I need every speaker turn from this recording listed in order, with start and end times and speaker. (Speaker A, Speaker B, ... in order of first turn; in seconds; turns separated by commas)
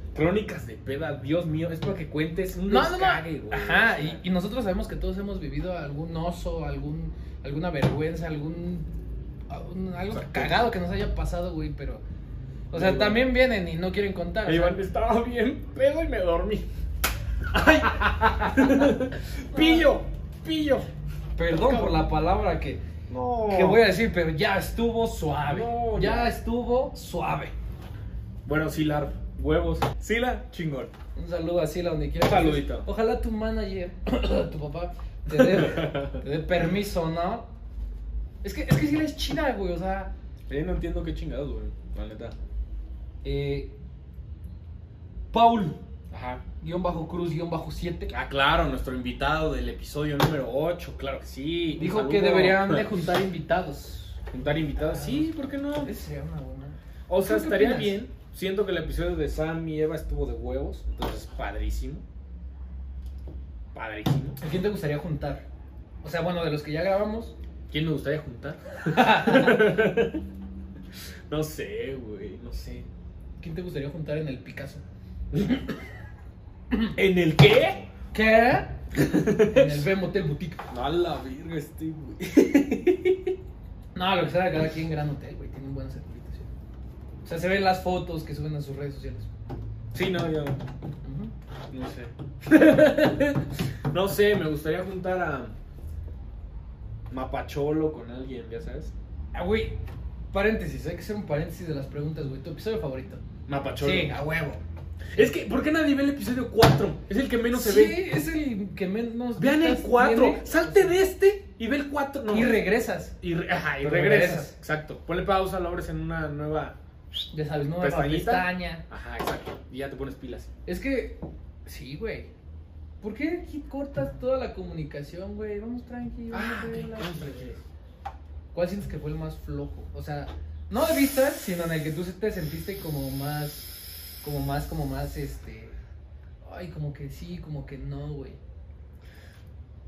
Speaker A: 0.1-4.2, Speaker B: 2.7-8.9, Speaker B: 9.5-12.0, Speaker A: 10.1-10.7, Speaker B: 12.7-14.8, Speaker A: 12.7-13.3, Speaker A: 14.4-16.7, Speaker A: 17.5-20.9, Speaker B: 18.2-19.0, Speaker B: 19.5-19.9, Speaker B: 21.4-22.8, Speaker A: 21.5-22.0, Speaker A: 23.1-23.9, Speaker B: 23.5-27.5, Speaker A: 25.5-26.3, Speaker A: 28.4-30.9, Speaker B: 31.1-37.5, Speaker A: 32.2-32.9, Speaker A: 35.3-36.2, Speaker B: 38.4-40.1, Speaker A: 40.5-42.3, Speaker B: 43.2-43.7, Speaker B: 45.3-45.8, Speaker A: 46.1-46.4, Speaker B: 46.6-48.1, Speaker A: 48.1-52.9, Speaker B: 51.7-58.0, Speaker A: 54.3-55.9, Speaker A: 57.1-62.0, Speaker A: 63.7-64.4, Speaker B: 64.4-65.5, Speaker B: 66.0-67.3, Speaker A: 67.7-70.2, Speaker B: 68.9-69.6, Speaker A: 71.3-72.9, Speaker B: 73.4-74.8, Speaker A: 76.9-77.8, Speaker B: 78.1-78.8, Speaker A: 78.9-79.8, Speaker B: 79.4-80.6, Speaker A: 80.7-83.3, Speaker B: 83.9-86.5, Speaker B: 87.2-89.3, Speaker A: 89.9-90.6, Speaker B: 91.0-91.3, Speaker A: 91.7-95.5, Speaker A: 97.1-98.9, Speaker B: 99.3-99.8, Speaker B: 100.3-103.2, Speaker A: 103.5-104.1, Speaker B: 103.8-104.6, Speaker A: 105.1-108.0, Speaker B: 107.5-111.0, Speaker A: 109.3-112.6, Speaker B: 112.3-113.1, Speaker A: 113.2-116.8, Speaker B: 113.8-114.5, Speaker B: 117.3-118.8, Speaker A: 117.8-120.5, Speaker B: 120.7-122.3, Speaker B: 123.0-127.6, Speaker A: 126.3-127.6, Speaker B: 128.5-133.7, Speaker B: 134.2-135.8, Speaker B: 136.4-138.4